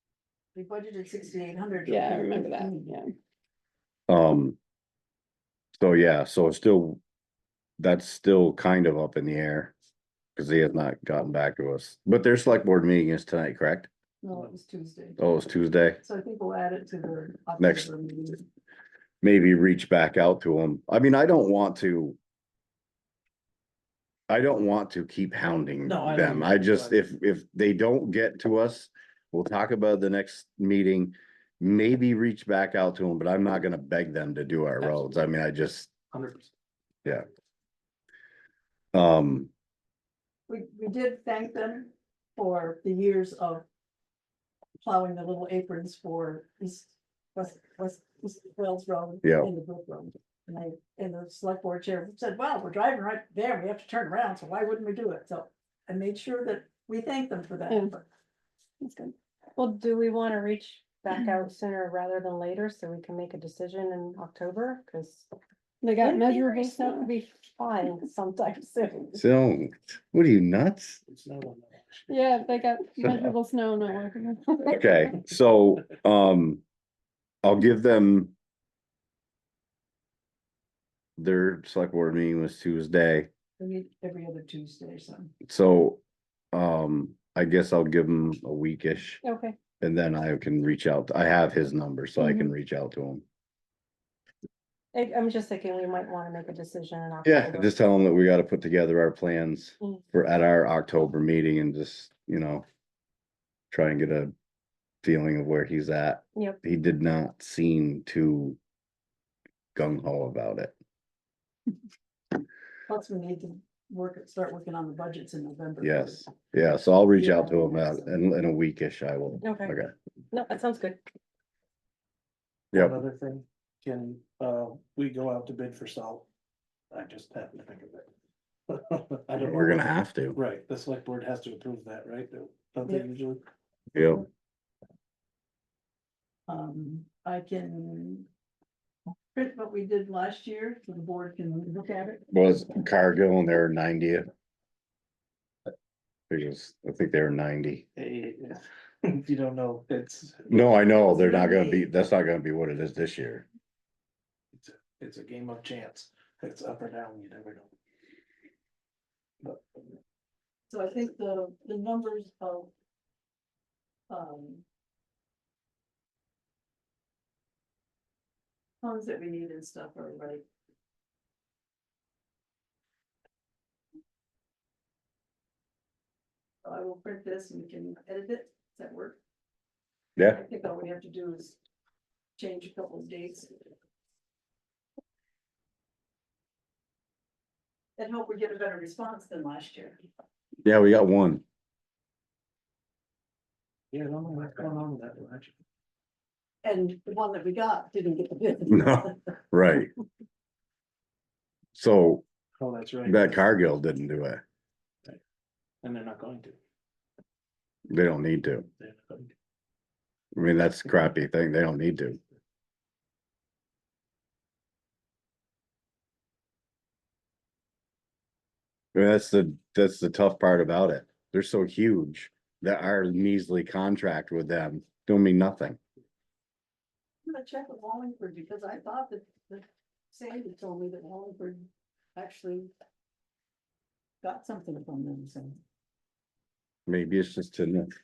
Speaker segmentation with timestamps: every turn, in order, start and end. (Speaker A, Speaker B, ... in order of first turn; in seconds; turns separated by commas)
Speaker A: 0.6-3.0, Speaker B: 1.9-3.1, Speaker C: 4.1-4.6, Speaker C: 5.8-7.0, Speaker C: 7.8-9.7, Speaker C: 10.4-13.9, Speaker A: 14.2-15.2, Speaker C: 15.2-16.0, Speaker A: 16.0-18.4, Speaker C: 17.6-17.9, Speaker C: 19.2-22.2, Speaker C: 24.3-35.9, Speaker D: 25.9-27.0, Speaker D: 34.8-35.2, Speaker D: 36.1-36.5, Speaker C: 38.9-39.5, Speaker A: 40.5-43.7, Speaker A: 44.8-58.1, Speaker C: 49.2-49.5, Speaker B: 58.8-59.1, Speaker E: 59.6-65.3, Speaker B: 65.8-67.2, Speaker E: 66.0-69.2, Speaker C: 69.2-71.0, Speaker D: 71.1-72.5, Speaker B: 72.1-74.8, Speaker C: 74.7-76.6, Speaker C: 77.4-78.3, Speaker C: 81.2-83.3, Speaker A: 83.6-85.3, Speaker C: 85.5-86.0, Speaker C: 86.5-89.2, Speaker E: 89.2-89.6, Speaker C: 89.8-93.2, Speaker E: 92.2-92.5, Speaker E: 94.9-97.8, Speaker C: 97.2-102.6, Speaker C: 103.7-104.3, Speaker C: 105.0-108.6, Speaker C: 109.8-110.7, Speaker A: 112.9-116.3, Speaker C: 115.8-119.9, Speaker A: 117.1-118.3, Speaker E: 119.4-119.8, Speaker E: 120.3-121.0, Speaker C: 122.7-123.0, Speaker D: 122.7-126.3, Speaker D: 126.9-128.1, Speaker D: 128.7-133.4, Speaker C: 129.4-130.4, Speaker C: 133.9-134.3, Speaker A: 136.5-138.3, Speaker A: 139.3-142.3, Speaker C: 142.3-144.3, Speaker C: 146.3-147.8, Speaker D: 148.0-150.8, Speaker C: 150.5-153.5, Speaker A: 151.0-151.9, Speaker D: 154.6-157.7, Speaker D: 159.4-159.8, Speaker A: 160.7-162.7, Speaker A: 164.1-164.6, Speaker A: 168.8-170.4, Speaker A: 176.6-179.2, Speaker A: 180.2-181.6, Speaker A: 182.4-183.5, Speaker A: 188.0-190.0, Speaker C: 190.7-191.4, Speaker D: 193.9-195.5, Speaker A: 196.6-199.2, Speaker C: 198.7-199.9, Speaker C: 201.8-202.2, Speaker D: 202.6-203.4, Speaker C: 203.1-204.4, Speaker D: 205.8-206.6, Speaker C: 207.9-208.7, Speaker D: 208.8-209.3, Speaker C: 210.3-212.2, Speaker C: 218.9-225.8, Speaker A: 227.3-232.7, Speaker A: 234.2-235.6, Speaker C: 236.9-237.9